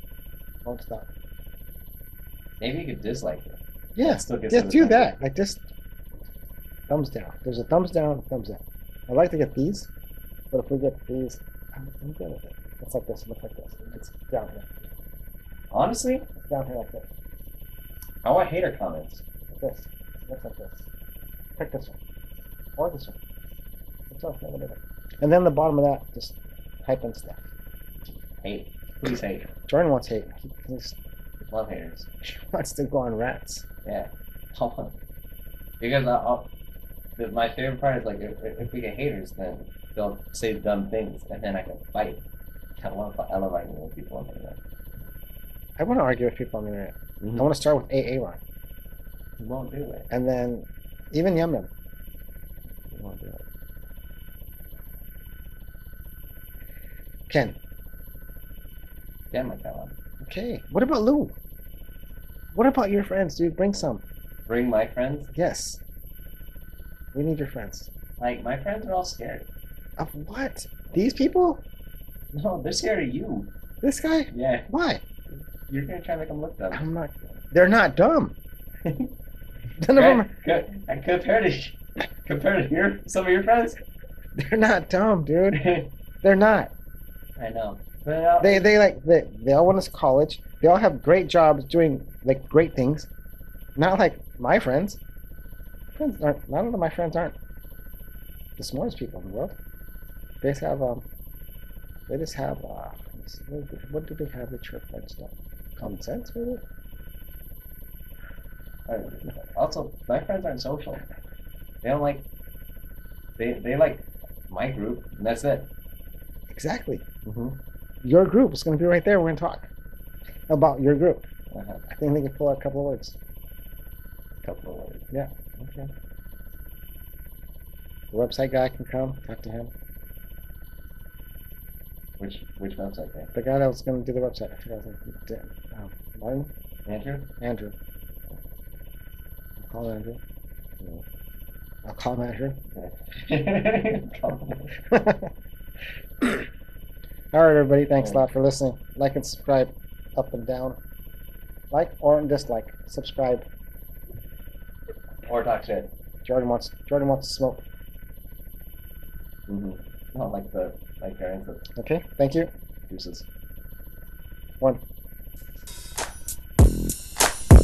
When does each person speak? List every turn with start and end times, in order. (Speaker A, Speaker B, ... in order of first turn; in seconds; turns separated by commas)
Speaker A: 0.6-1.1, Speaker B: 2.6-5.1, Speaker A: 4.0-5.7, Speaker A: 6.9-9.9, Speaker A: 10.5-14.7, Speaker B: 15.7-16.2, Speaker A: 16.4-17.1, Speaker B: 18.2-19.2, Speaker A: 19.5-20.8, Speaker A: 21.6-22.0, Speaker A: 22.8-23.1, Speaker A: 24.1-27.4, Speaker B: 28.4-29.5, Speaker A: 29.7-31.0, Speaker B: 31.4-32.1, Speaker A: 32.2-33.6, Speaker B: 33.8-34.9, Speaker B: 35.8-36.5, Speaker B: 37.2-42.2, Speaker B: 42.8-44.6, Speaker A: 45.8-48.4, Speaker B: 47.2-47.5, Speaker B: 49.4-50.1, Speaker A: 50.1-51.7, Speaker A: 52.9-53.4, Speaker A: 57.3-57.6, Speaker B: 59.3-60.0, Speaker A: 60.2-61.3, Speaker A: 62.5-64.0, Speaker B: 64.5-65.3, Speaker A: 65.3-65.8, Speaker A: 67.1-67.9, Speaker B: 68.2-69.5, Speaker A: 70.0-71.6, Speaker B: 72.3-73.5, Speaker A: 73.8-75.0, Speaker B: 74.3-74.7, Speaker B: 75.7-76.8, Speaker A: 76.7-78.3, Speaker B: 78.8-79.1, Speaker A: 79.8-80.3, Speaker B: 79.9-83.8, Speaker A: 84.3-85.6, Speaker B: 85.5-85.9, Speaker A: 86.2-86.7, Speaker B: 87.4-88.6, Speaker A: 88.4-93.1, Speaker A: 93.8-95.0, Speaker A: 95.9-97.3, Speaker A: 98.6-99.5, Speaker A: 100.4-101.0, Speaker A: 102.1-106.6, Speaker B: 108.9-111.0, Speaker B: 111.8-112.2, Speaker B: 113.4-115.7, Speaker A: 116.5-117.0, Speaker B: 117.2-117.6, Speaker A: 118.0-119.7, Speaker A: 120.5-121.2, Speaker B: 121.5-121.8, Speaker A: 121.9-123.2, Speaker B: 124.4-125.9, Speaker A: 128.1-129.7, Speaker B: 132.2-133.3, Speaker A: 133.3-136.5, Speaker B: 136.9-137.3, Speaker A: 137.4-137.7, Speaker A: 139.6-140.2, Speaker A: 141.8-142.6, Speaker B: 142.7-144.7, Speaker A: 144.9-145.3, Speaker A: 147.3-150.8, Speaker A: 151.7-153.4, Speaker B: 155.2-155.9, Speaker A: 156.2-157.6, Speaker B: 159.5-161.7, Speaker A: 161.8-162.5, Speaker B: 162.9-163.3